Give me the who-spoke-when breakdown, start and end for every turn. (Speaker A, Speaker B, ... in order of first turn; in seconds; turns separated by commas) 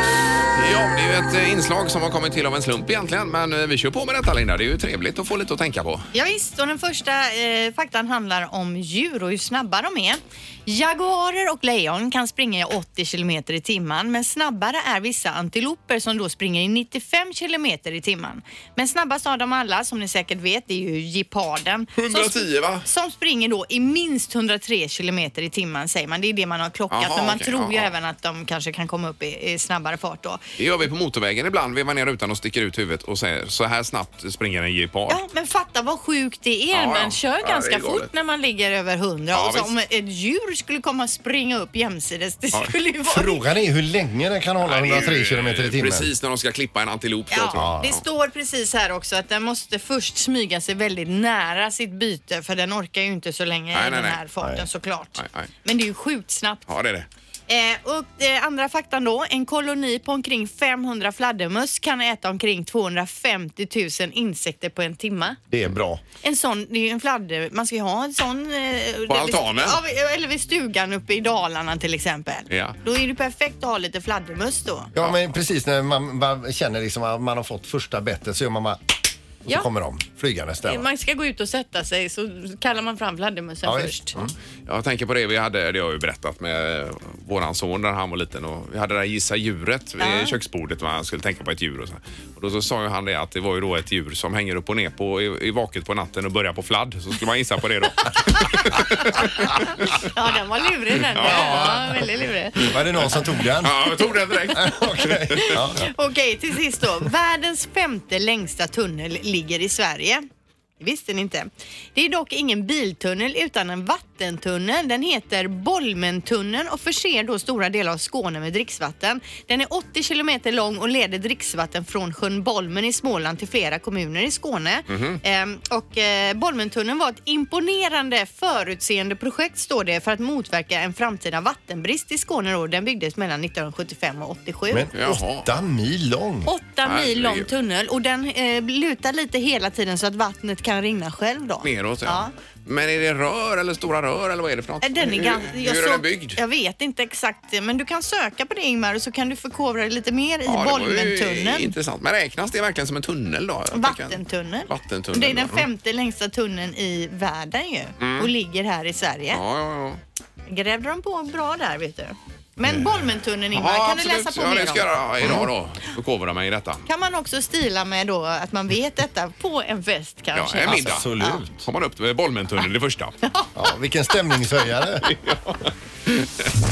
Speaker A: 0.5-6.0, Speaker B: 6.1-30.4, Speaker A: 22.0-22.9, Speaker A: 26.9-27.9, Speaker A: 30.6-35.2, Speaker B: 35.1-43.4, Speaker A: 36.7-38.1, Speaker A: 39.3-39.7, Speaker C: 43.1-46.1, Speaker A: 44.6-48.0, Speaker B: 47.3-56.7, Speaker C: 47.5-47.9, Speaker A: 53.7-54.2, Speaker A: 55.2-55.5, Speaker A: 56.7-57.1, Speaker B: 57.5-65.4, Speaker C: 65.5-66.0, Speaker B: 66.2-74.9, Speaker A: 69.1-69.8, Speaker A: 72.5-72.8, Speaker C: 74.9-78.8, Speaker C: 79.4-80.9, Speaker B: 80.6-84.1, Speaker C: 83.6-84.3, Speaker A: 84.7-99.7, Speaker B: 90.0-90.4, Speaker B: 100.1-102.6, Speaker A: 101.1-102.1, Speaker C: 101.2-101.8, Speaker C: 102.6-103.9, Speaker A: 102.6-105.6, Speaker C: 104.5-105.9, Speaker B: 105.5-110.2, Speaker B: 110.8-134.9, Speaker A: 124.9-125.2, Speaker C: 134.7-136.5, Speaker A: 134.9-135.5, Speaker B: 136.4-142.3, Speaker A: 136.8-137.5, Speaker A: 141.6-146.4, Speaker B: 144.8-151.7, Speaker A: 150.5-155.7, Speaker B: 153.7-159.4, Speaker A: 158.0-158.3, Speaker A: 159.3-160.0, Speaker B: 160.5-165.4, Speaker A: 163.5-166.9, Speaker B: 166.9-171.4, Speaker A: 170.3-173.1, Speaker C: 170.6-171.6, Speaker C: 173.6-175.1, Speaker A: 175.0-176.5